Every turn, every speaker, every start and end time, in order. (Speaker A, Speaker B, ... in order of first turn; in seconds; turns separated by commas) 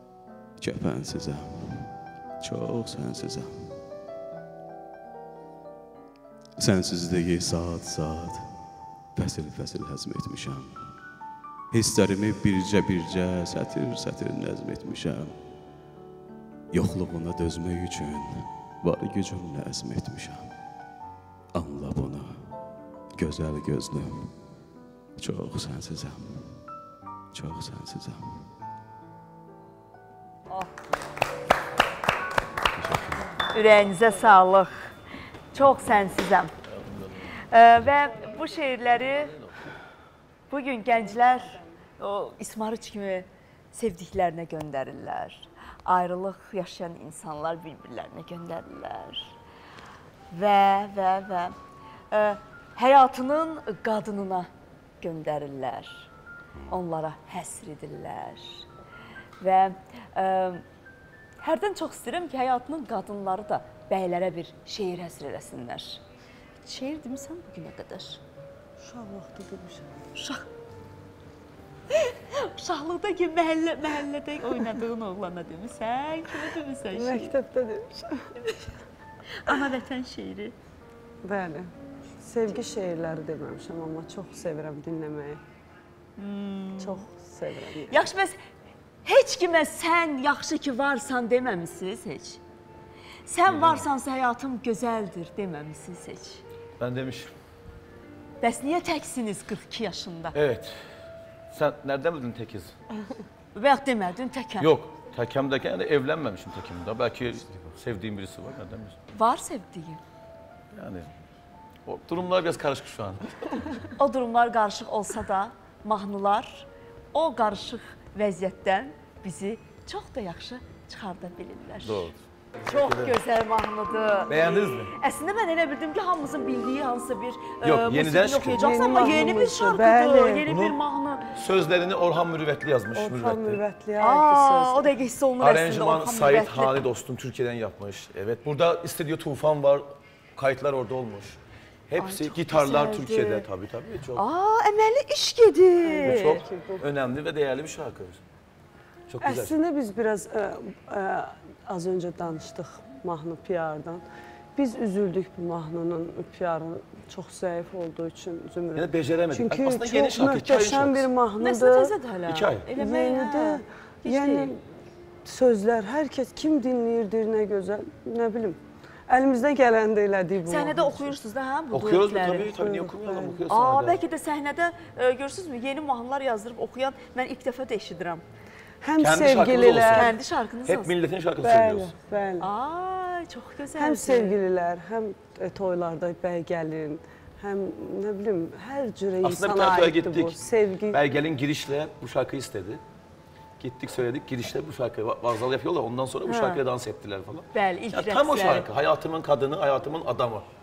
Speaker A: 0.6-3.8, Speaker A: 6.6-8.5, Speaker A: 9.1-10.8, Speaker A: 11.7-15.3, Speaker A: 16.7-20.5, Speaker A: 21.5-22.4, Speaker A: 23.2-24.3, Speaker A: 25.2-26.6, Speaker A: 27.3-28.4, Speaker A: 32.7-33.3, Speaker B: 33.5-34.9, Speaker B: 35.5-36.5, Speaker C: 36.7-37.3, Speaker B: 37.5-39.3, Speaker C: 39.2-39.5, Speaker B: 40.5-49.3, Speaker B: 50.3-51.5, Speaker B: 52.1-54.5, Speaker B: 55.0-56.1, Speaker B: 56.7-58.6, Speaker B: 59.4-60.6, Speaker B: 61.4-66.0, Speaker B: 66.6-68.2, Speaker D: 68.8-69.9, Speaker B: 70.2-70.5, Speaker B: 71.9-77.3, Speaker D: 76.9-78.3, Speaker B: 79.4-80.5, Speaker D: 81.2-81.7, Speaker D: 82.2-85.4, Speaker B: 86.2-87.0, Speaker D: 86.8-88.1, Speaker B: 87.9-88.4, Speaker B: 89.0-92.4, Speaker B: 93.3-96.4, Speaker C: 93.5-93.8, Speaker C: 96.8-97.3, Speaker B: 98.4-100.4, Speaker C: 100.3-100.9, Speaker C: 101.5-102.7, Speaker B: 103.5-104.7, Speaker C: 104.6-109.0, Speaker A: 107.3-107.7, Speaker B: 109.1-110.0, Speaker C: 110.7-111.1, Speaker C: 111.8-113.8, Speaker B: 114.0-122.1, Speaker C: 121.8-123.2, Speaker B: 122.6-131.2, Speaker C: 124.3-124.9, Speaker C: 127.6-128.6, Speaker D: 128.5-130.4, Speaker C: 130.4-130.8, Speaker C: 131.3-133.6, Speaker D: 132.9-134.9, Speaker B: 134.0-136.8, Speaker C: 135.4-144.2, Speaker B: 142.0-143.4, Speaker B: 144.2-146.4, Speaker D: 145.8-146.9, Speaker C: 146.0-148.2, Speaker C: 149.1-149.5, Speaker D: 149.2-154.0, Speaker D: 154.6-161.9, Speaker C: 158.7-161.1, Speaker B: 161.4-164.5, Speaker C: 162.2-162.7, Speaker D: 162.8-164.6, Speaker D: 165.2-171.1, Speaker B: 170.4-172.5, Speaker C: 171.7-174.0, Speaker D: 172.6-173.4, Speaker B: 173.5-178.2, Speaker D: 178.8-180.1, Speaker C: 179.0-180.1, Speaker B: 179.9-180.9, Speaker C: 180.6-181.9, Speaker D: 181.4-182.5, Speaker B: 182.4-184.3, Speaker D: 183.8-191.0, Speaker C: 189.2-190.4, Speaker C: 190.9-192.8, Speaker C: 193.6-200.4, Speaker B: 196.3-196.6, Speaker B: 197.5-198.7